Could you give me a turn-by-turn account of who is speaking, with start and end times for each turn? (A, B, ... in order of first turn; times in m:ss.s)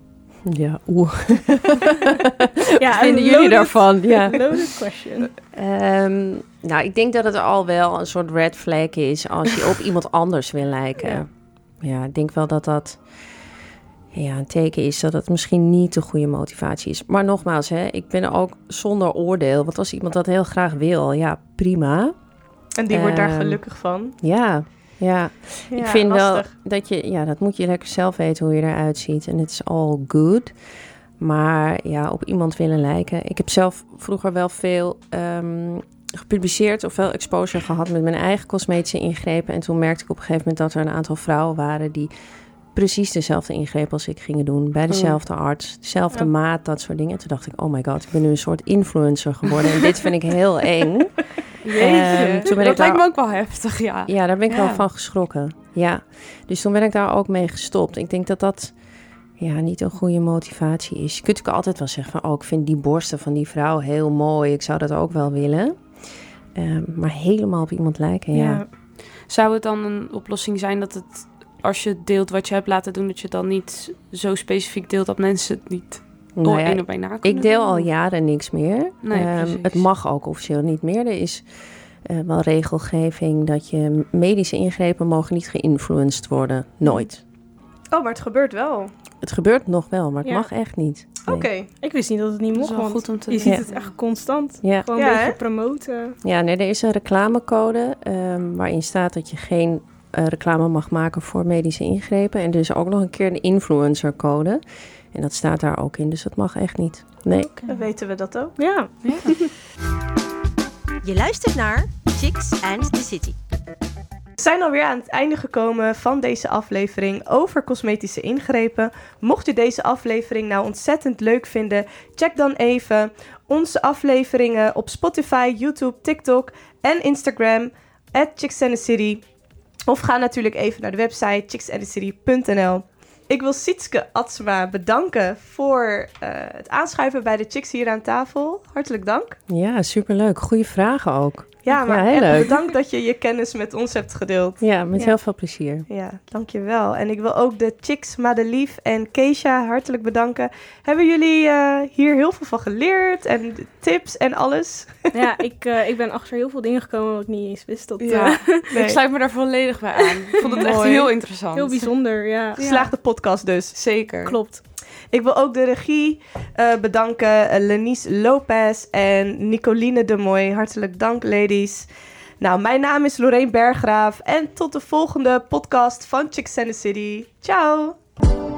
0:00.4-0:04.5 A
0:02.8-0:05.3 B
0:05.5-0:13.0 A
0:14.1-0:22.2 A
0:22.8-0:24.1 C
0:22.9-0:23.6 A
0:24.2-0:30.5 A
0:25.7-0:26.5 C
0:31.2-0:42.1 A
0:42.7-0:53.1 A
0:44.9-0:45.2 D
0:51.6-0:54.8 D
0:51.8-0:52.5 C
0:54.1-0:58.7 A
0:59.4-1:05.8 A
1:06.5-1:08.6 A
1:08.3-1:08.7 B
1:09.3-1:17.8 D
1:16.4-1:21.4 A
1:19.0-1:19.9 D
1:22.0-1:27.2 A
1:27.9-1:28.9 C
1:29.2-1:31.5 A
1:30.2-1:30.5 B
1:31.2-1:31.7 C
1:31.8-1:36.2 B
1:32.5-1:33.9 D
1:34.6-1:34.9 A
1:35.0-1:35.4 C
1:36.2-1:47.5 A
1:47.4-1:47.8 B
1:47.6-1:48.6 C
1:48.6-1:49.5 B
1:49.0-1:49.3 D
1:51.0-1:53.4 E
1:54.4-2:09.2 C
2:09.9-2:19.4 C
2:19.5-2:22.6 A
2:21.6-2:25.2 C
2:24.6-2:25.8 A
2:25.9-2:35.1 C
2:35.1-2:38.8 B
2:38.0-2:41.9 D
2:38.7-2:39.0 C
2:40.2-2:42.6 B
2:40.4-2:40.8 C
2:42.6-2:42.9 D
2:42.6-2:43.8 C
2:43.7-2:44.4 D
2:44.2-2:44.6 B
2:45.1-2:51.9 C
2:52.4-2:58.0 C